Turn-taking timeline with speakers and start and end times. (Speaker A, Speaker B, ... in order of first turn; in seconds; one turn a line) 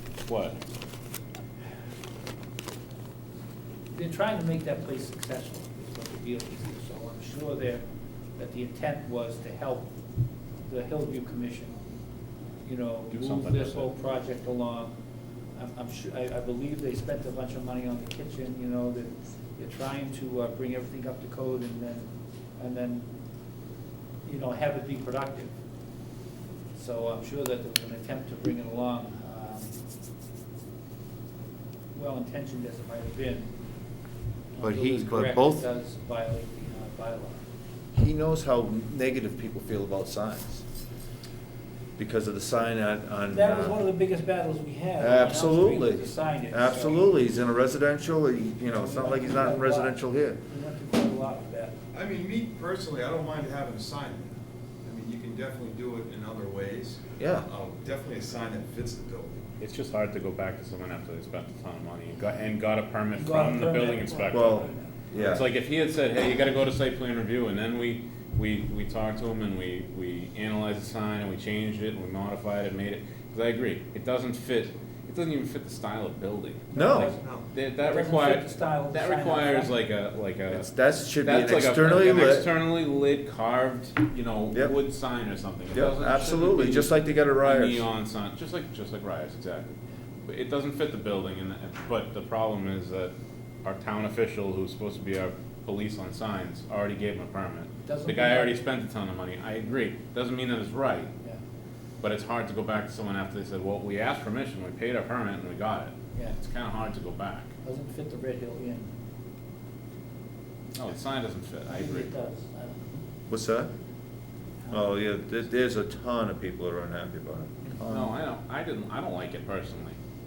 Speaker A: 0.3-0.6
Speaker B: 3.9-7.8
Speaker B: 8.4-9.9
Speaker B: 10.6-11.8
Speaker B: 12.6-14.9
Speaker A: 13.1-13.9
Speaker B: 15.6-23.1
Speaker B: 24.2-25.5
Speaker B: 26.7-29.8
Speaker B: 31.9-33.5
Speaker B: 34.5-37.5
Speaker C: 34.6-35.6
Speaker C: 37.9-40.6
Speaker C: 42.0-43.8
Speaker B: 43.3-47.1
Speaker C: 45.0-50.4
Speaker B: 48.7-51.8
Speaker D: 51.9-59.5
Speaker C: 57.2-57.5
Speaker A: 59.6-89.7
Speaker B: 63.1-64.9
Speaker C: 64.3-65.4
Speaker B: 76.7-77.2
Speaker C: 76.7-77.1
Speaker D: 77.1-77.5
Speaker B: 77.8-79.8
Speaker C: 80.5-82.5
Speaker C: 85.7-87.8
Speaker A: 90.2-101.1
Speaker B: 97.8-98.6
Speaker A: 102.0-107.5
Speaker B: 107.6-108.9
Speaker A: 110.7-112.1
Speaker B: 111.7-113.0
Speaker C: 113.3-113.7
Speaker B: 114.6-114.9
Speaker C: 114.7-118.2
Speaker A: 117.8-120.0